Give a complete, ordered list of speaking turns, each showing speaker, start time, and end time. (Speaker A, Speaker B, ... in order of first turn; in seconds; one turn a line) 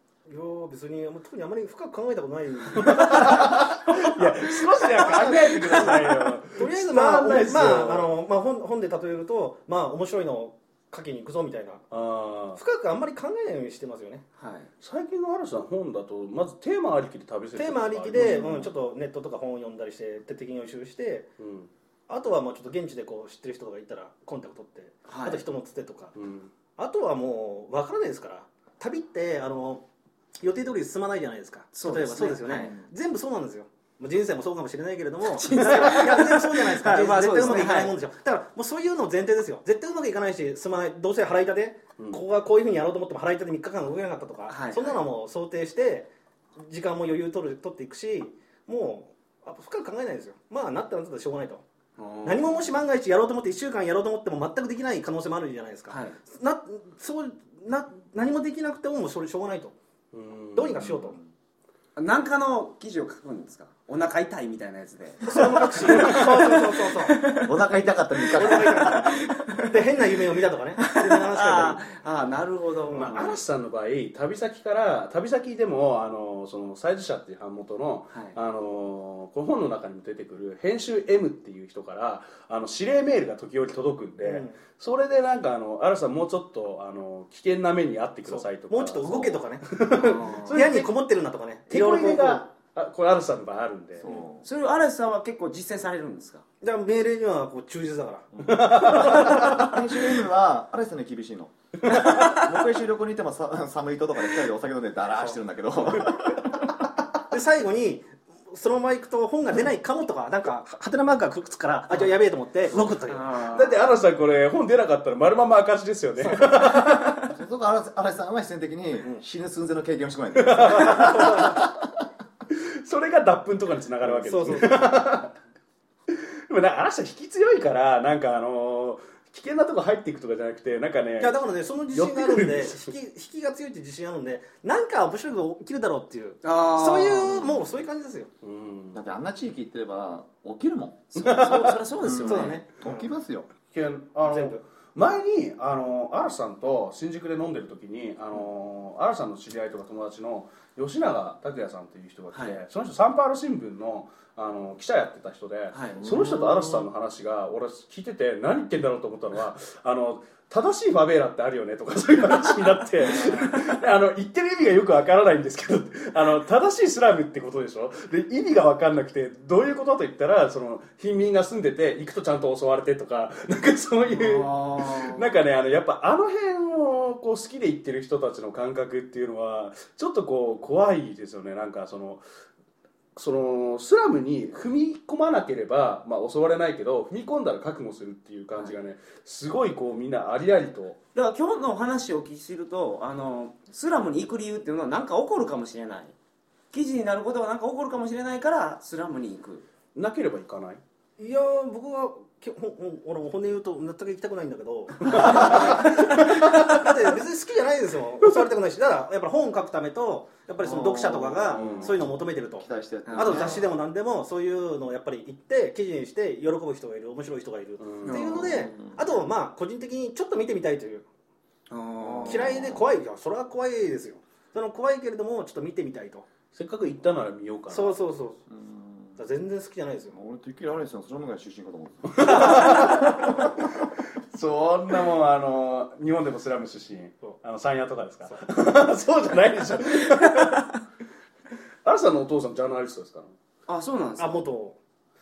Speaker A: 0.3-4.1
Speaker B: 2.7-8.1
Speaker A: 5.0-11.8
Speaker C: 5.6-5.9
Speaker B: 11.9-12.6
Speaker A: 12.6-14.2
Speaker C: 14.4-14.7
Speaker B: 14.8-18.6
Speaker A: 17.6-21.3
Speaker B: 21.4-21.7
Speaker A: 22.1-26.1
Speaker C: 25.1-25.4
Speaker B: 26.1-26.5
Speaker A: 26.8-29.8
Speaker A: 30.4-51.6
Speaker C: 31.7-32.8
Speaker C: 35.3-38.0
Speaker B: 35.5-36.0
Speaker C: 44.5-45.0
Speaker C: 52.0-52.8
Speaker A: 52.2-59.7
Speaker C: 55.9-56.2
Speaker B: 60.1-61.0
Speaker A: 60.5-61.2
Speaker D: 60.8-61.3
Speaker C: 62.0-70.0
Speaker A: 65.2-67.3
Speaker B: 65.8-66.5
Speaker D: 67.4-69.1
Speaker A: 68.3-71.8
Speaker C: 70.8-73.4
Speaker A: 72.9-73.3
Speaker B: 73.0-90.9
Speaker A: 84.2-84.6
Speaker A: 88.3-89.7
Speaker C: 90.0-90.7
Speaker A: 90.5-92.4
Speaker B: 91.7-94.1
Speaker D: 94.0-94.5
Speaker C: 94.4-96.5
Speaker A: 96.6-99.8
Speaker D: 98.4-106.6
Speaker B: 98.4-99.7
Speaker B: 101.9-102.3
Speaker C: 101.9-102.4
Speaker A: 107.3-113.3
Speaker C: 113.1-113.8
Speaker B: 113.4-117.3
Speaker A: 116.2-116.6
Speaker D: 117.2-121.7
Speaker B: 120.3-121.7
Speaker A: 120.9-121.6
Speaker B: 122.5-125.3
Speaker A: 124.0-124.8
Speaker B: 126.1-132.9
Speaker A: 131.2-138.3
Speaker C: 136.4-137.5
Speaker B: 138.4-139.0
Speaker D: 138.9-141.0
Speaker C: 141.1-142.6
Speaker B: 141.2-141.8
Speaker D: 142.0-143.5
Speaker A: 142.2-143.1
Speaker B: 143.7-182.2
Speaker A: 144.2-144.6
Speaker C: 152.3-152.6
Speaker C: 155.7-156.4
Speaker D: 156.0-156.3
Speaker C: 163.1-163.7
Speaker C: 174.1-175.3
Speaker B: 183.2-191.0
Speaker C: 191.2-196.2
Speaker C: 196.7-199.7
Speaker B: 199.9-200.8
Speaker A: 201.2-221.1
Speaker B: 205.1-206.9
Speaker D: 210.6-213.7
Speaker B: 211.5-212.0
Speaker C: 213.1-213.6
Speaker B: 217.8-218.4
Speaker C: 218.0-218.7
Speaker D: 218.4-219.1
Speaker C: 221.7-222.8
Speaker A: 222.2-226.3
Speaker B: 226.5-228.0
Speaker A: 227.7-228.4
Speaker D: 228.5-229.2
Speaker A: 229.2-230.2
Speaker D: 230.1-233.4
Speaker B: 232.1-240.8
Speaker B: 241.8-243.3
Speaker C: 243.7-244.5
Speaker A: 244.2-244.8